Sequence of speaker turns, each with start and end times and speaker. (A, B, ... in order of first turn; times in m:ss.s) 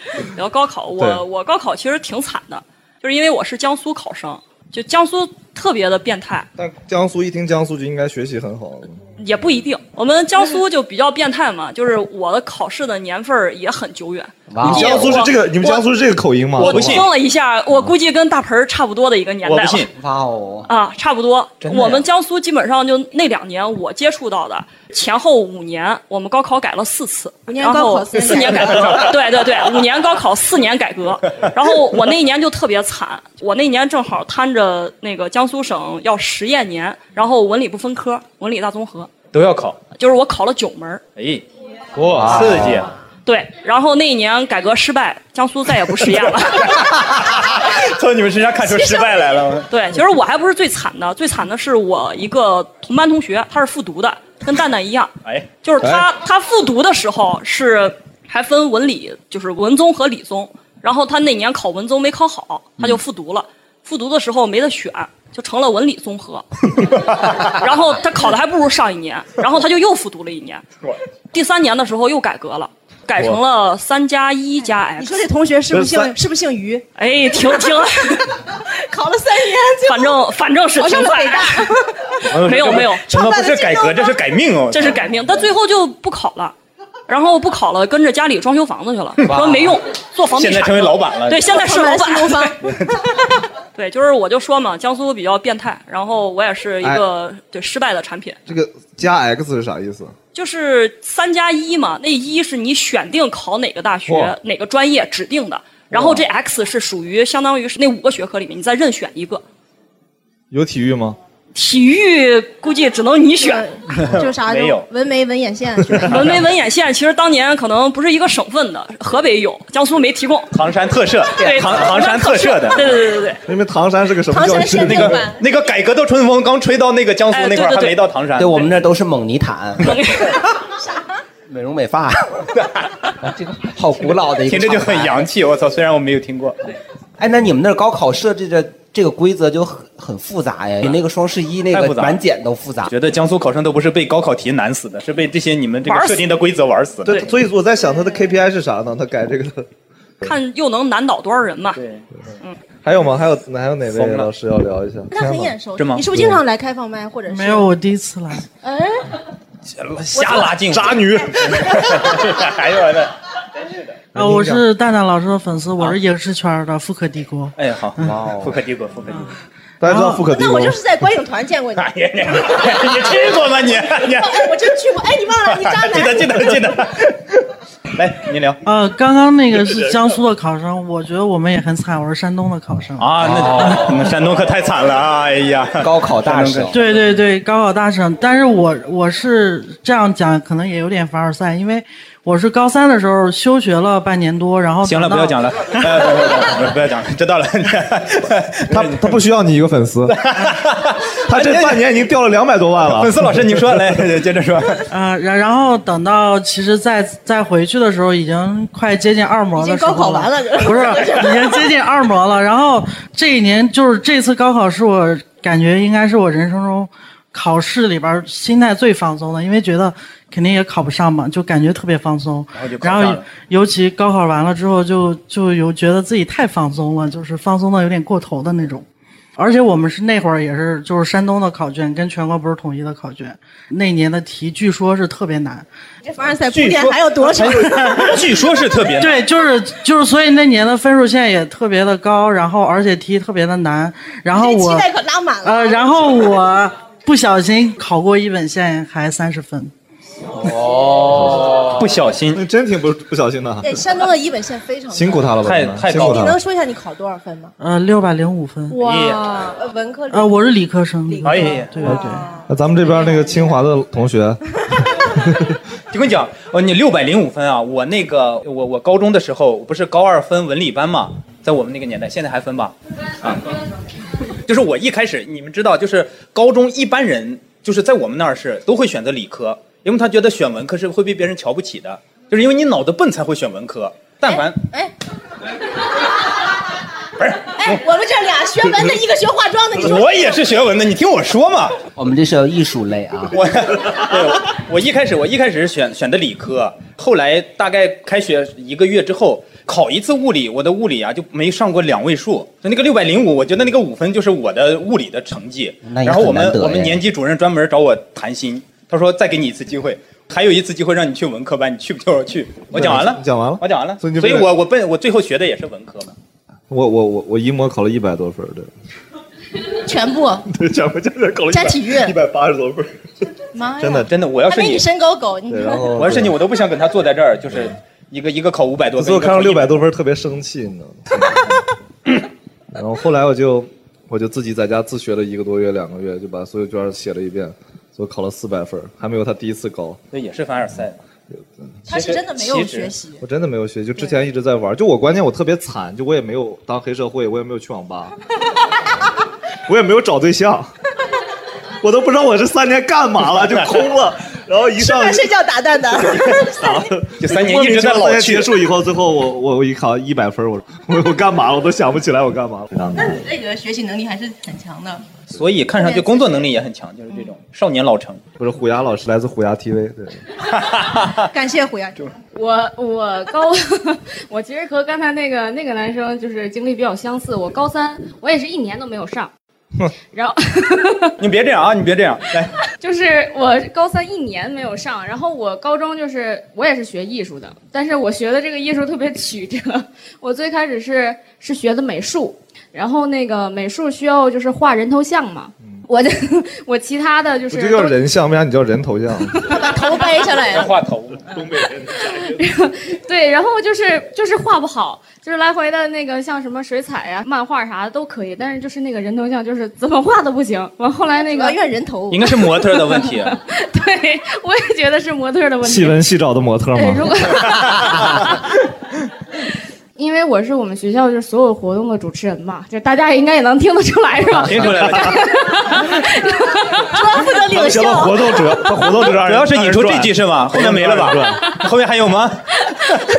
0:00.4-0:06.5 A
0:01.0-0:01.2 B
0:06.6-0:09.0 B
0:09.2-0:15.4 A
0:14.5-0:15.2 C
0:14.6-0:17.0 B
0:14.7-0:15.1 D
0:16.6-0:17.1 D
0:16.6-0:19.9 A
0:19.4-0:19.9 D
0:19.9-0:20.7 C
0:20.7-0:39.1 A
0:21.6-0:22.1 D
0:27.5-0:29.2 E
0:28.6-0:29.1 D
0:39.3-0:39.8 D
0:39.9-0:41.0 A
0:41.2-0:41.4 D
0:42.0-0:42.9 B
0:42.1-0:42.9 D
0:43.2-0:46.9 A
0:46.1-0:49.7 D
0:49.7-1:06.4 A
0:55.2-0:55.5 D
0:55.8-0:56.1 B
1:06.8-1:07.5 D
1:07.2-1:10.6 A
1:11.3-1:15.2 A
1:15.0-1:16.8 E
1:15.7-1:16.1 B
1:17.0-1:18.3 A
1:18.7-1:20.2 E
1:19.8-1:21.7 A
1:20.7-1:24.2 E
1:22.2-1:25.0 D
1:22.4-1:23.1 A
1:24.7-1:26.5 A
1:27.1-1:32.6 A
1:29.2-1:31.6 D
1:31.4-1:32.6 E
1:32.6-1:32.9 D
1:33.7-1:38.4 A
1:38.5-1:40.1 B
1:40.3-1:49.4 A
1:44.1-1:44.3 B
1:45.9-1:46.3 B
1:50.5-1:51.2 B
1:51.5-1:53.7 A
1:53.4-1:56.4 E
1:53.9-1:54.9 D
1:56.0-2:00.5 A
2:00.5-2:03.0 D
2:01.4-2:02.9 E
2:01.4-2:03.4 A
2:03.5-2:05.2 B
2:04.3-2:05.4 E
2:04.8-2:08.7 D
2:07.3-2:08.0 A
2:08.4-2:10.0 C
2:09.8-2:10.3 A
2:11.5-2:12.5 C
2:12.6-2:12.9 D
2:13.2-2:15.3 C
2:14.4-2:16.7 D
2:17.2-2:22.9 C
2:21.7-2:22.2 D
2:22.8-2:27.3 D
2:25.8-2:26.3 A
2:27.0-2:29.7 B
2:30.2-2:31.8 A
2:31.7-2:32.0 D
2:32.8-2:35.6 B
2:33.9-2:34.3 D
2:35.1-2:37.7 E
2:35.8-2:36.1 D
2:36.2-2:36.4 B
2:37.3-2:38.4 F
2:38.6-2:39.0 E
2:39.8-2:43.9 D
2:40.2-2:40.5 E
2:40.7-2:41.8 B
2:44.1-2:48.3 F
2:44.1-2:44.6 B
2:47.6-2:49.3 D
2:49.8-2:50.8 B
2:49.8-2:50.3 F
2:50.3-2:51.9 E
2:51.7-2:54.5 D
2:54.2-2:56.5 E
2:55.5-2:58.6 D
2:58.6-3:03.2 F
3:03.0-3:07.1 D
3:05.8-3:06.8 C
3:06.7-3:15.4 F
3:14.8-3:19.2 D
3:18.7-3:20.5 B
3:20.1-3:21.9 D
3:21.2-3:23.9 B
3:22.8-3:24.8 D
3:24.9-3:48.8 F
3:29.5-3:31.6 E
3:42.5-3:43.2 D
3:49.4-3:55.6 F
3:56.0-3:58.2 E
3:56.5-3:59.2 D
3:59.0-4:04.9 F
4:04.3-4:06.2 E
4:05.4-4:09.7 F
4:11.0-4:11.7 B
4:11.0-4:12.4 D
4:12.3-4:13.8 B
4:13.6-4:15.3 E
4:14.9-4:16.4 B
4:15.4-4:16.3 D
4:15.9-4:17.5 E
4:17.6-4:18.8 F
4:18.7-4:20.5 E
4:18.8-4:19.3 D
4:20.1-4:22.4 F
4:21.1-4:23.6 E
4:21.2-4:21.7 D
4:21.8-4:24.4 B
4:25.0-4:25.5 B
4:25.9-4:33.4 D
4:34.4-4:44.6 D
4:44.3-4:44.9 E
4:47.2-4:47.7 D
4:47.5-4:50.2 E
4:49.8-4:51.8 D
4:52.0-4:53.4 C
4:53.3-5:16.1 D
5:05.8-5:07.0 C
5:12.7-5:14.5 B
5:16.7-5:18.7 B
5:19.8-5:20.5 E
5:20.5-5:23.0 B
5:21.5-5:22.2 E
5:23.5-5:25.9 E
5:23.8-5:24.1 B
5:24.0-5:24.9 D
5:25.5-5:26.4 B
5:25.9-5:29.8 D
5:29.0-5:31.6 B
5:32.7-5:40.0 B
5:40.1-5:41.0 D
5:41.9-5:43.2 E
5:41.9-5:42.9 D
5:43.2-5:48.1 B
5:49.7-5:50.7 B
5:51.8-5:55.3 B
5:54.8-5:56.8 E
5:56.1-6:03.3 B
5:57.2-5:58.5 D
6:02.9-6:05.0 E
6:05.3-6:08.2 D
6:05.8-6:06.2 E
6:08.4-6:10.2 B
6:10.6-6:11.2 D
6:11.3-6:12.1 E
6:12.3-6:19.3 G
6:20.1-6:21.1 G
6:21.2-6:22.5 D
6:22.8-6:37.9 G
6:37.5-6:39.4 B
6:39.5-6:40.7 E
6:39.5-6:40.0 G
6:40.5-6:41.2 D
6:41.3-6:42.4 B
6:41.9-6:51.6 G
6:51.2-6:52.3 E
6:52.1-6:53.4 D
6:52.2-6:56.1 G
6:55.6-6:58.2 B
6:56.7-6:58.4 G
7:00.0-7:07.0 G
7:04.4-7:05.1 B
7:04.4-7:05.3 D
7:06.8-7:08.8 E
7:07.5-7:11.5 B
7:09.1-7:13.0 D